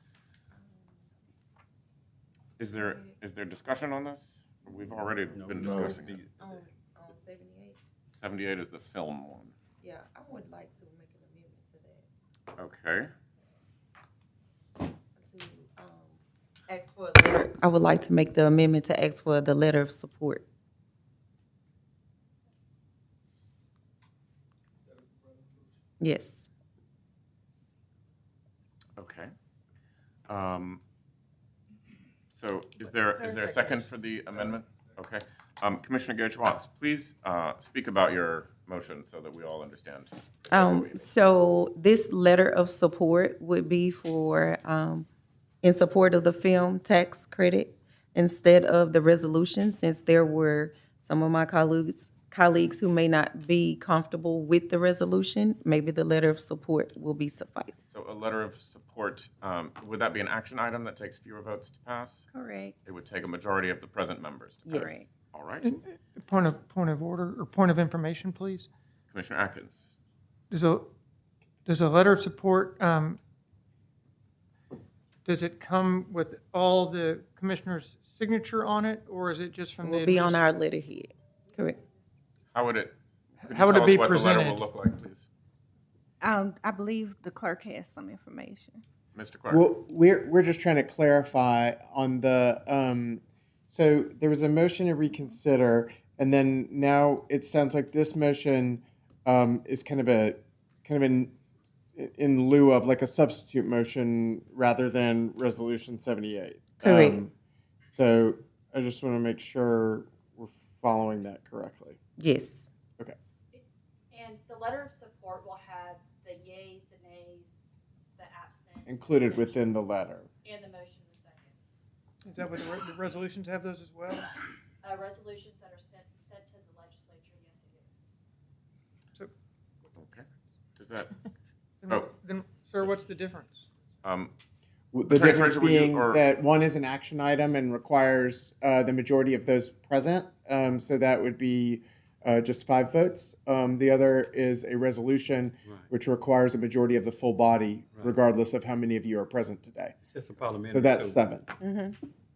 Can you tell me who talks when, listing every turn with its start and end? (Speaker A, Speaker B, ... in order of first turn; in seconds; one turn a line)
Speaker A: 0.6-1.0
Speaker B: 2.6-6.2
Speaker C: 5.3-6.6
Speaker A: 6.4-7.8
Speaker B: 8.1-9.5
Speaker A: 9.8-12.1
Speaker B: 12.6-13.1
Speaker A: 15.2-16.2
Speaker A: 16.7-20.4
Speaker A: 26.0-26.5
Speaker B: 29.0-29.3
Speaker B: 30.3-30.8
Speaker B: 32.3-41.1
Speaker A: 40.5-45.1
Speaker A: 45.6-57.9
Speaker B: 57.9-62.3
Speaker D: 62.3-62.7
Speaker B: 62.8-65.7
Speaker A: 64.7-65.1
Speaker D: 64.7-65.0
Speaker E: 65.6-68.7
Speaker B: 69.1-69.9
Speaker E: 70.5-70.9
Speaker E: 71.6-73.2
Speaker E: 75.2-80.5
Speaker A: 79.8-81.8
Speaker B: 82.5-85.3
Speaker E: 83.4-84.6
Speaker D: 86.2-88.8
Speaker B: 89.1-89.7
Speaker F: 89.5-101.3
Speaker F: 102.0-107.3
Speaker A: 106.8-107.2
Speaker F: 107.8-112.0
Speaker A: 112.2-112.7
Speaker G: 113.5-117.5
Speaker G: 118.2-119.9
Speaker F: 118.9-120.3
Speaker G: 120.4-121.8
Speaker E: 122.2-124.3
Speaker G: 124.8-127.9
Speaker B: 129.9-130.2
Speaker B: 130.8-131.1
Speaker E: 131.8-133.7
Speaker B: 134.0-134.3
Speaker F: 134.9-149.9
Speaker B: 135.1-136.2
Speaker C: 150.1-151.2
Speaker F: 150.6-151.5
Speaker A: 151.6-152.0